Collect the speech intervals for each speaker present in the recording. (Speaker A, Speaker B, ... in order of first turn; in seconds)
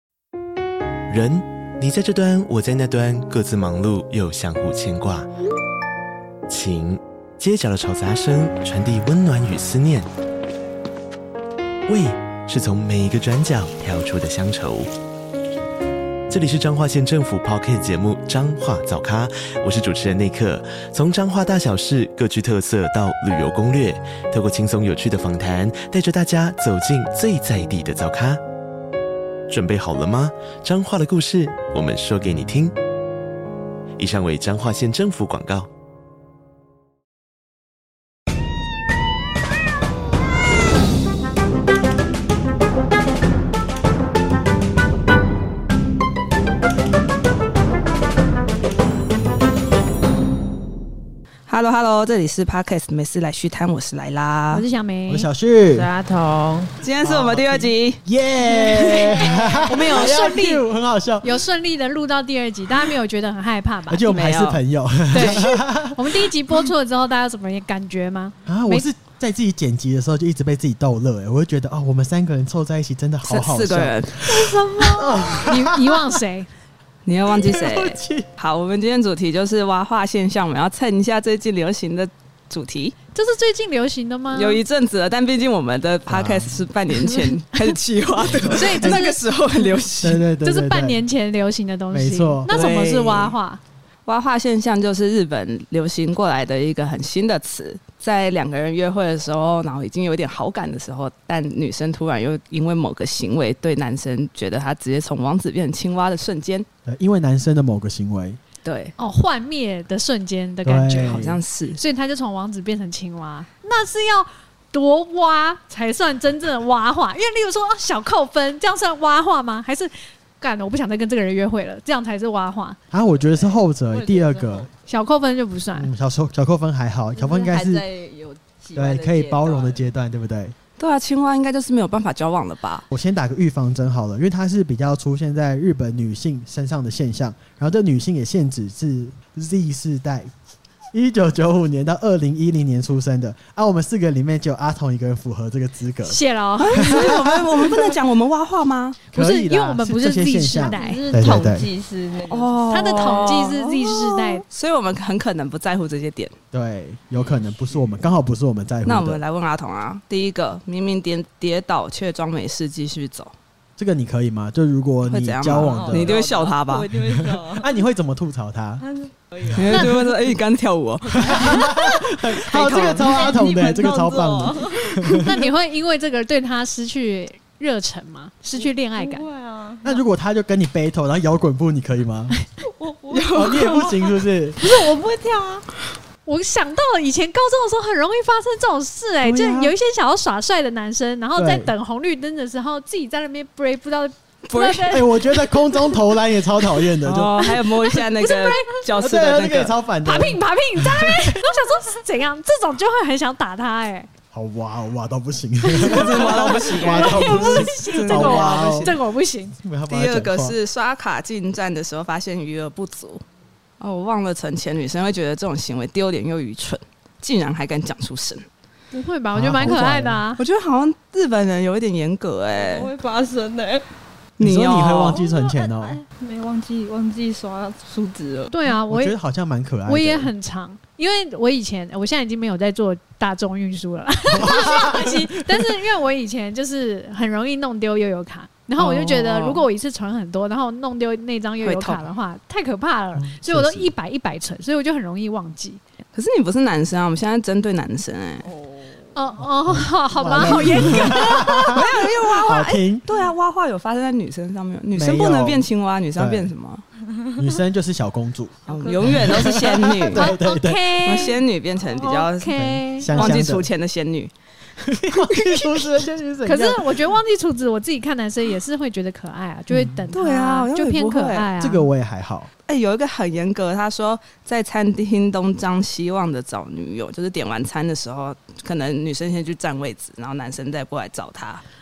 Speaker A: 1.1-5.3, 6.5-10.1, 11.9-14.9, 16.3-28.4, 29.5-32.8, 34.0-35.7
Speaker B: 51.5-54.6, 56.8-58.0, 64.1-64.6, 73.3-75.2, 77.1-83.0, 84.3-90.2, 92.5-93.4, 94.1-106.7, 108.6-109.0, 110.9-111.8, 130.8-132.9, 146.6-149.0, 152.3-156.3, 158.9-163.3, 165.1-166.9, 169.6-173.4, 183.1-184.0, 194.5-195.0, 197.0-199.8, 205.8-209.0, 209.9-213.2, 213.8-218.4, 220.4-222.9, 224.4-225.2, 238.8-239.7, 241.6-242.1, 246.1-248.5, 250.9-256.8, 258.7-260.3, 261.0-264.3, 265.1-265.9, 270.1-271.5, 272.7-281.6
Speaker C: 54.5-55.3, 59.6-60.6, 61.2-64.1, 65.1-68.9, 75.3-76.5, 83.1-84.6, 88.5-89.2, 90.4-93.6, 109.0-111.2, 111.8-122.8, 124.9-125.9, 146.1-147.1, 149.1-151.0, 152.7-154.4, 169.7-170.1, 175.2-179.3, 186.3-195.9, 197.4-198.8, 200.0-204.1, 205.7-209.6, 218.9-220.4, 228.5-229.2, 229.9-245.8, 249.2-251.8, 260.1-263.4, 266.4-271.9
Speaker D: 55.1-55.9, 57.0-61.4, 63.9-66.3, 68.5-76.1, 77.3-78.3, 86.1-86.6, 88.2-89.0, 90.0-91.0, 91.9-92.7, 106.9-108.4, 110.7-111.4, 122.9-124.7, 125.8-127.8, 128.8-130.6, 132.9-140.3, 140.9-146.2, 146.8-148.0, 149.1-151.7, 156.5-159.2, 163.8-166.2, 167.0-168.8, 171.2-175.4, 179.8-182.3, 183.3-184.6, 189.2-189.7, 191.4-191.7, 194.9-197.5, 199.0-201.6, 204.3-208.9, 209.5-210.6, 219.3-220.2, 224.4-226.0, 228.9-230.3, 234.3-235.8, 243.2-243.9, 249.7-253.1, 254.9-256.5, 257.4-261.0, 262.6-263.7, 264.9-267.1, 269.7-270.0, 271.6-272.5
Speaker E: 55.7-56.7, 123.3-124.7, 127.2-129.9, 150.7-153.4, 165.6-167.7, 168.8-169.8, 171.2-171.6, 172.8-175.2, 178.6-180.0, 182.7-184.1, 184.6-185.6, 222.5-223.8, 225.2-228.5, 248.4-249.1, 258.7-259.6